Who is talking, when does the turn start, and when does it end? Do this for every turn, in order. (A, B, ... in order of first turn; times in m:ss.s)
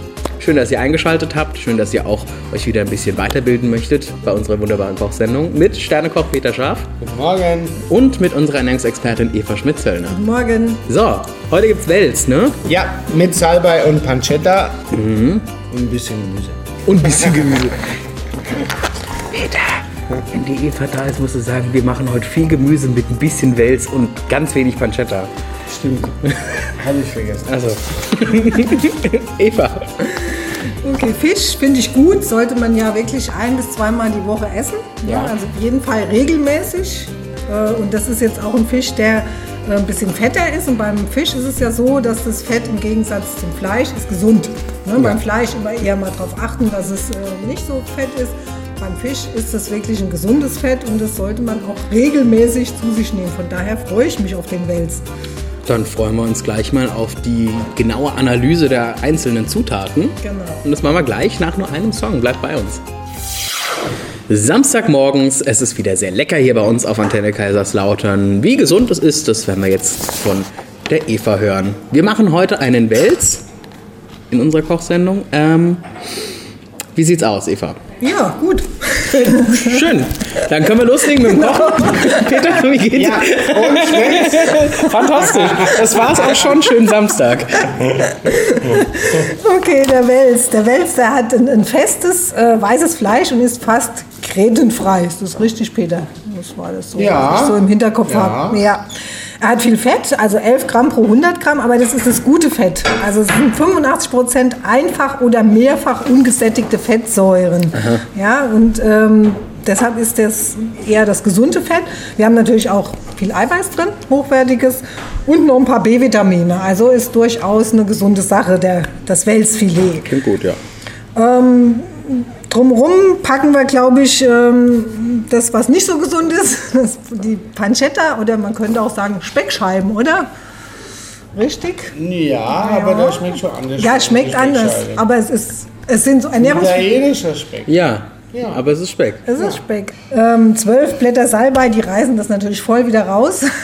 0:00.4-0:06.9 A
0:07.0-0:07.8 B
0:07.9-0:10.2 A
0:10.1-0:10.8 C
0:10.9-0:12.6 A
0:12.6-0:14.9 B
0:14.9-0:15.5 A
0:15.7-0:16.8 B
0:16.9-0:17.8 A
0:19.3-0:25.3 A
0:25.7-0:26.2 B
0:26.7-0:27.5 B
0:27.5-0:30.2 A
0:30.8-0:55.0 C
0:35.1-0:35.3 A
0:55.6-1:02.8 A
1:00.2-1:00.6 C
1:04.3-1:13.5 A
1:14.3-1:15.8 A
1:17.0-1:17.8 A
1:18.0-1:19.8 C
1:19.1-1:28.1 A
1:21.2-1:22.4 C
1:23.0-1:24.7 B
1:25.3-1:26.4 B
1:28.1-1:38.8 C
1:37.0-1:38.6 B
1:39.4-2:00.1 C
1:47.8-1:48.0 A
2:00.0-2:00.6 A
2:01.2-2:10.3 C
2:11.4-2:12.0 C
2:11.9-2:15.1 B
2:12.5-2:16.9 C
2:16.4-2:17.8 B
2:17.7-2:19.3 A
2:18.3-2:18.6 B
2:19.3-2:23.5 C